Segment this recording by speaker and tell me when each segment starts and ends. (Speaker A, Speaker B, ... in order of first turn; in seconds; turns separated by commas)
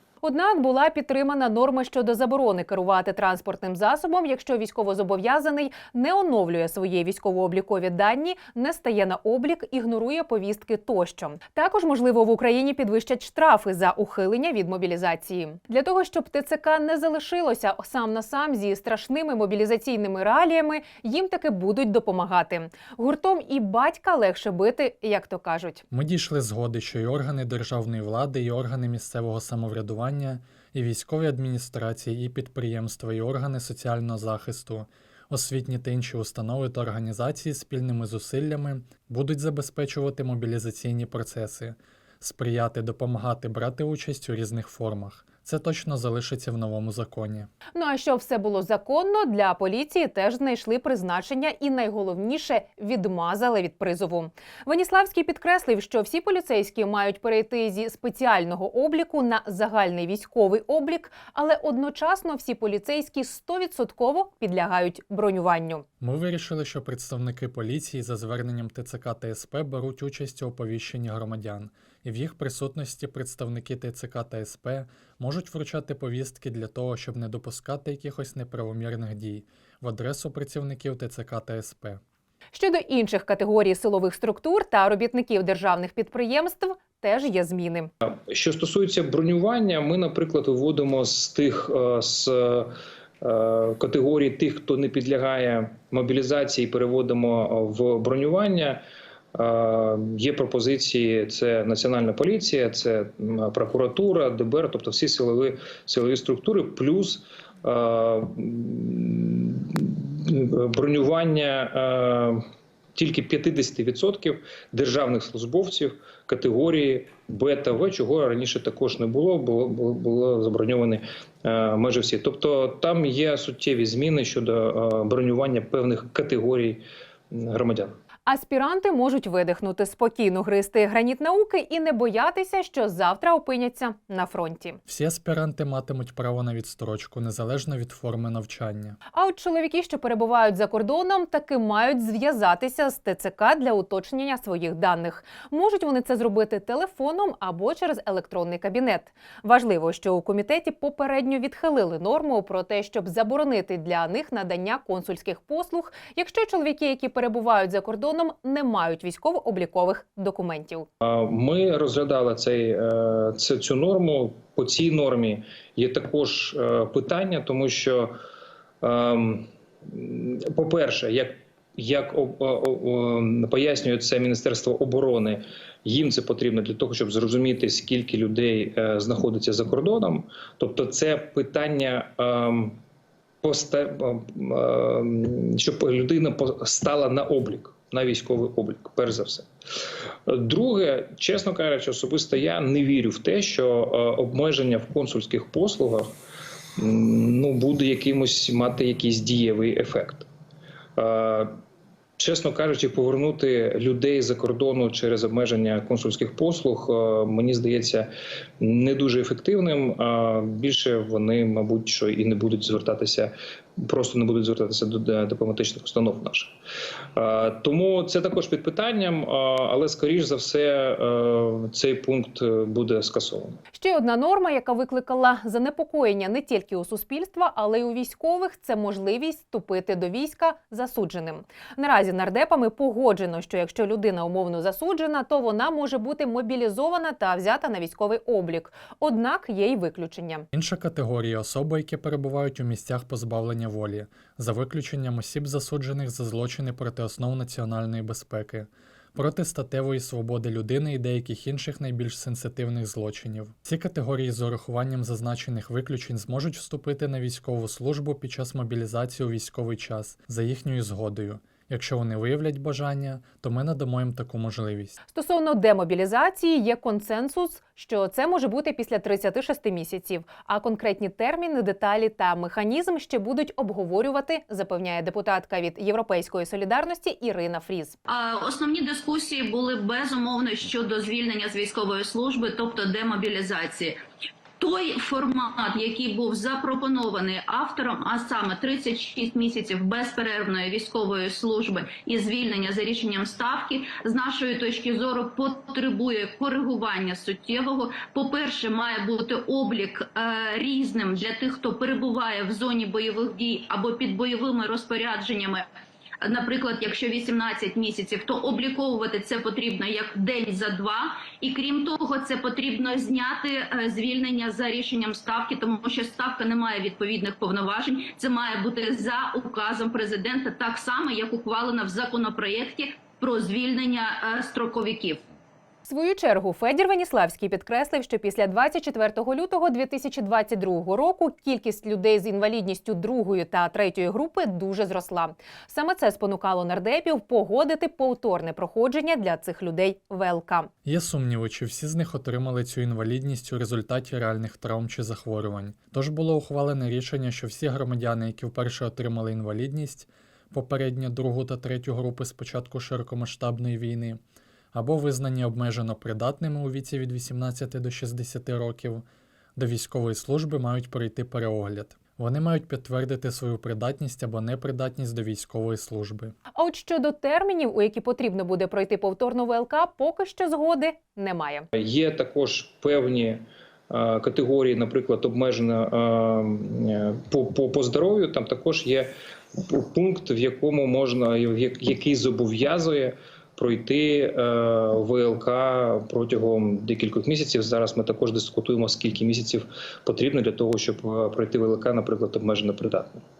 Speaker A: 0.2-25.8, Speaker B: 25.9-47.5, Speaker A: 47.8-65.9, Speaker B: 66.0-82.0, Speaker A: 82.5-87.9, Speaker C: 88.3-98.8, Speaker C: 99.3-112.4, Speaker C: 113.0-128.0, Speaker A: 128.3-134.8, Speaker B: 134.9-139.0, Speaker A: 139.1-160.9, Speaker C: 161.0-168.2, Speaker C: 168.8-182.8, Speaker C: 183.4-189.5, Speaker C: 190.3-196.1, Speaker C: 196.8-200.3, Speaker C: 201.0-201.5, Speaker C: 202.2-208.1, Speaker C: 208.6-216.6, Speaker C: 217.2-223.6, Speaker A: 223.7-240.5, Speaker B: 240.5-265.0, Speaker A: 265.1-278.0, Speaker D: 278.1-284.0, Speaker D: 284.6-305.7, Speaker D: 306.2-325.2, Speaker A: 325.9-340.7, Speaker B: 340.9-354.2, Speaker B: 354.7-359.1, Speaker B: 359.6-366.4, Speaker A: 366.6-371.7, Speaker C: 371.8-393.2